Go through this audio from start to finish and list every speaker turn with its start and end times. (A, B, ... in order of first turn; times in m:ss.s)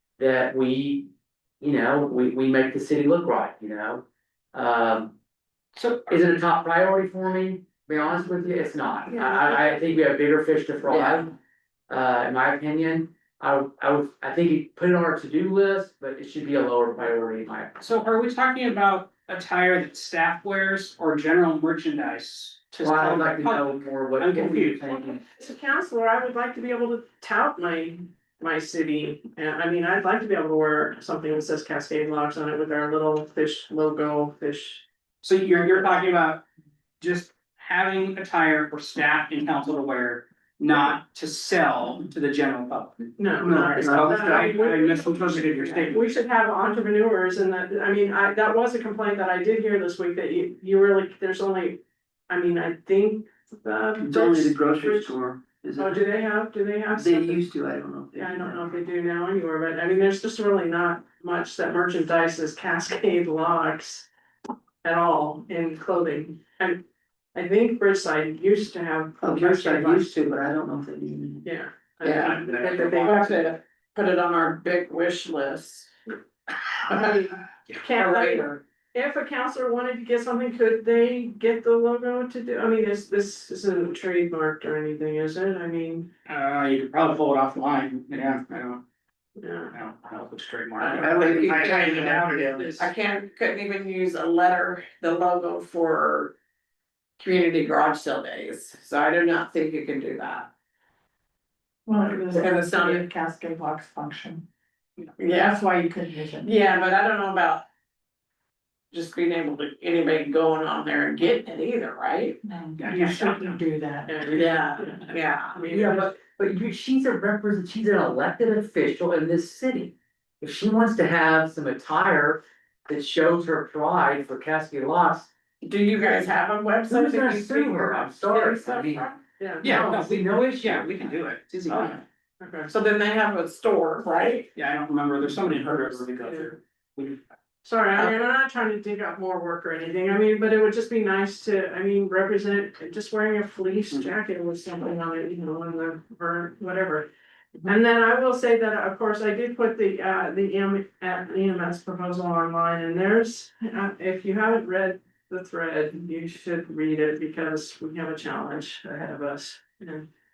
0:00.2-0:01.1 A
0:01.6-0:05.1 A
0:05.7-0:06.2 B
0:06.1-0:11.3 A
0:09.1-0:09.6 C
0:11.9-0:17.7 A
0:17.8-0:24.8 B
0:22.8-0:25.2 A
0:25.2-0:34.8 D
0:35.2-0:36.4 B
0:37.0-0:43.0 B
0:43.2-0:55.2 D
0:43.4-0:45.4 E
0:43.8-0:46.1 B
0:54.0-0:56.0 E
0:55.8-0:57.5 D
0:56.9-0:58.7 E
0:58.1-1:04.1 D
1:04.8-1:06.8 D
1:07.3-1:10.1 D
1:09.2-1:11.5 E
1:11.4-1:13.3 D
1:12.0-1:15.9 C
1:12.3-1:13.1 B
1:16.8-1:18.6 C
1:17.8-1:26.1 D
1:26.3-1:28.8 B
1:29.4-1:29.7 D
1:29.7-1:32.9 B
1:30.8-1:31.0 D
1:30.8-1:36.3 C
1:31.7-1:32.6 F
1:32.3-1:32.7 E
1:37.2-1:40.5 C
1:41.8-1:44.4 F
1:42.3-1:43.0 C
1:45.2-1:45.6 C
1:45.3-1:46.5 F
1:46.4-1:47.6 C
1:48.9-1:52.4 C
1:52.4-1:54.3 F
1:52.8-1:53.6 B
1:53.0-1:53.3 D
1:54.1-1:56.1 D
1:54.3-1:55.6 C
1:55.7-2:05.3 A
2:05.6-2:09.1 C
2:06.9-2:09.1 A
2:08.3-2:09.7 D
2:09.6-2:11.1 A
2:09.6-2:12.0 B
2:11.7-2:12.0 C
2:12.4-2:12.7 D
2:12.7-2:14.5 C
2:14.5-2:17.2 B
2:16.2-2:16.5 D
2:17.6-2:27.1 D
2:27.6-2:40.1 D